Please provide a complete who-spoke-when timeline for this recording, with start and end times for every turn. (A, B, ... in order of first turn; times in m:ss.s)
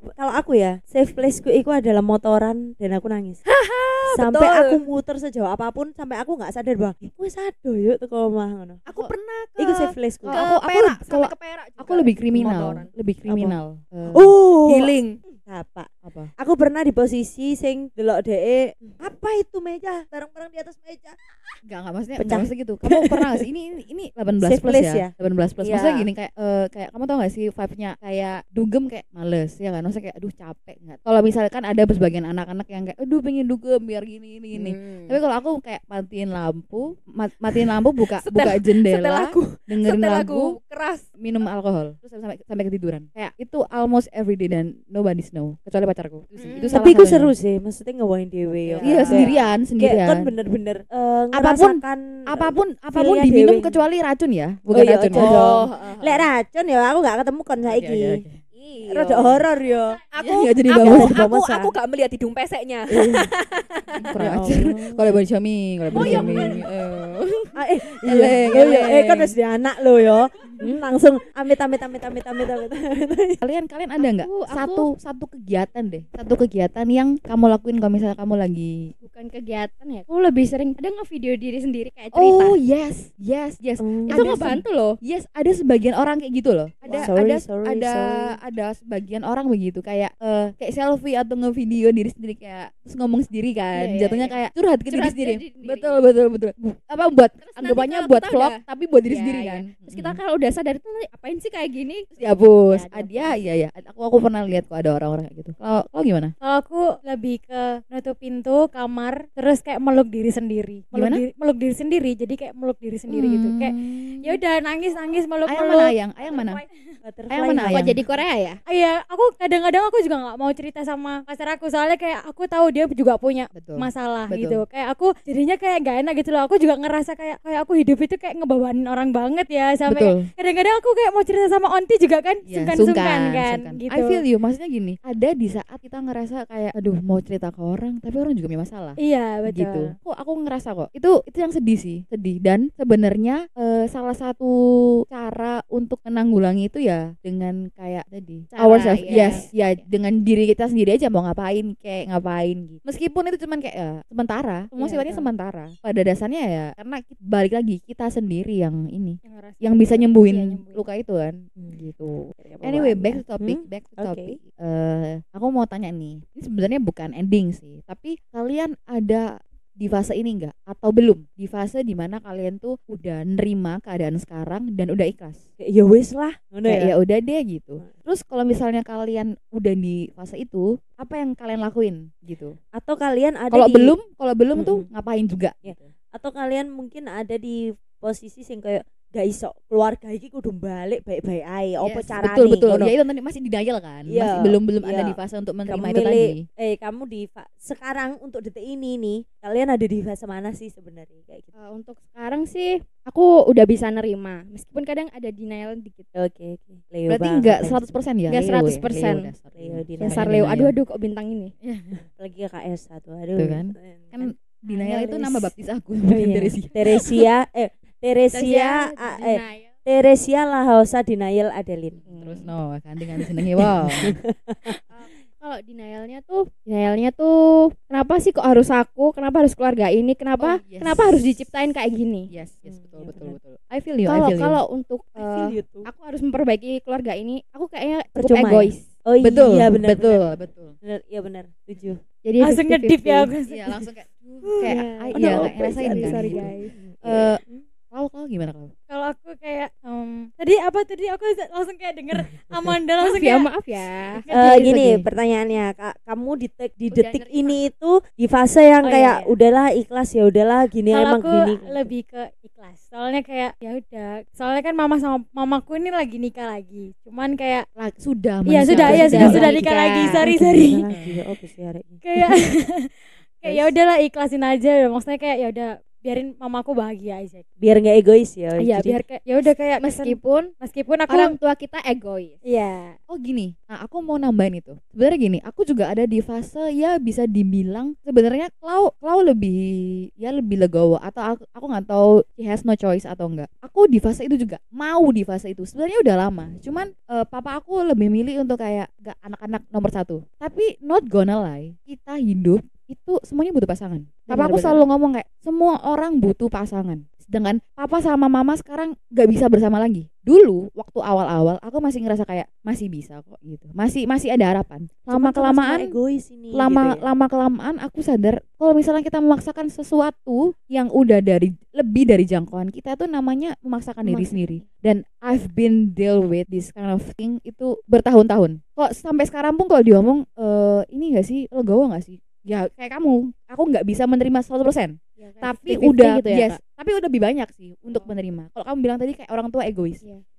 0:00.2-0:03.4 A
0:03.5-0:04.8 B
0:04.1-0:08.8 A
0:08.9-0:12.9 B
0:09.6-0:10.4 A
0:10.2-0:14.4 C
0:12.4-0:12.8 A
0:13.3-0:13.6 A
0:14.1-0:21.2 A
0:14.6-0:15.2 B
0:16.0-0:16.3 C
0:21.6-0:40.6 C
0:22.2-0:23.4 A
0:24.4-0:25.1 A
0:25.6-0:26.1 B
0:34.5-0:35.2 B
0:38.0-0:41.0 B
0:41.2-0:47.3 C
0:46.4-0:46.8 B
0:46.7-0:53.8 A
0:48.7-0:49.4 B
0:48.8-0:50.3 C
0:51.3-0:55.6 C
0:54.7-0:58.2 A
0:55.1-0:56.2 B
0:57.6-0:58.4 C
0:58.5-0:59.5 B
0:58.9-1:00.0 A
1:00.1-1:04.1 B
1:00.2-1:01.2 C
1:00.8-1:01.7 A
1:02.9-1:03.3 A
1:04.0-1:09.3 C
1:04.2-1:05.0 A
1:05.9-1:06.6 A
1:07.6-1:13.4 A
1:13.4-1:18.9 C
1:14.0-1:14.9 D
1:19.0-1:22.6 D
1:22.1-1:40.2 C
1:23.8-1:24.3 A
1:24.1-1:25.0 D
1:26.8-1:27.1 D
1:26.9-1:28.4 A
1:33.8-1:34.4 D
1:34.9-1:36.0 D
1:37.5-1:43.4 D
1:42.2-1:46.3 C
1:46.4-1:56.0 E
1:50.9-1:51.2 C
1:53.1-1:54.4 C
1:55.5-1:56.6 C
1:57.0-1:57.9 A
1:57.3-1:58.0 C
1:57.7-1:58.6 D
1:58.7-2:14.2 E
2:03.5-2:04.6 C
2:09.9-2:10.2 C
2:12.5-2:24.6 C
2:19.0-2:19.9 E
2:25.1-2:55.4 C
2:28.5-2:29.5 D
2:29.2-2:29.4 E
2:34.8-2:35.3 D
2:39.2-2:40.8 E
2:42.4-2:44.3 A
2:55.6-2:56.9 A
2:56.6-3:02.6 C
3:02.7-3:03.9 A
3:03.5-3:05.9 C
3:04.6-3:04.9 A
3:05.6-3:12.9 A
3:11.8-3:16.4 C
3:14.1-3:21.5 A
3:21.6-3:26.1 D
3:26.1-3:27.8 A
3:27.1-3:30.7 C
3:28.3-3:29.3 D
3:29.5-3:30.4 A
3:30.0-3:31.5 D
3:31.6-3:32.0 C
3:32.2-3:34.3 A
3:33.4-3:37.0 C
3:34.7-3:35.5 D
3:36.1-3:42.0 A
3:38.3-3:39.7 D
3:42.0-3:42.5 D
3:42.1-3:44.2 C
3:43.6-3:44.8 A
3:44.9-3:52.3 D
3:50.4-3:51.5 C
3:52.3-3:54.6 C
3:52.6-3:53.4 A
3:54.0-3:58.9 D
3:55.2-3:55.9 A
3:58.2-4:02.0 A
3:59.2-4:00.8 C
4:02.2-4:03.3 D
4:02.4-4:03.8 E
4:03.4-4:06.5 C
4:04.5-4:07.6 A
4:04.6-4:06.7 D
4:07.0-4:07.4 C
4:07.9-4:08.7 C
4:08.9-4:13.5 E
4:13.0-4:14.2 D
4:14.1-4:14.8 E
4:14.3-4:21.9 A
4:14.3-4:15.0 C
4:16.9-4:17.6 D
4:18.8-4:19.3 E
4:20.9-4:27.6 E
4:27.8-4:31.1 C
4:28.5-4:30.9 E
4:28.6-4:30.2 D
4:28.8-4:29.5 A
4:30.2-4:32.0 A
4:32.0-4:32.9 E
4:33.4-4:37.4 E
4:37.6-4:39.0 A
4:38.6-4:39.2 D
4:39.2-4:41.4 E
4:39.8-4:40.5 D
4:41.1-4:42.4 D
4:42.4-4:43.0 E
4:43.1-5:15.9 C
5:04.3-5:04.8 D
5:15.1-5:17.0 A
5:16.5-5:40.0 C
5:24.0-5:24.6 D
5:35.2-5:36.6 D
5:37.9-5:38.2 D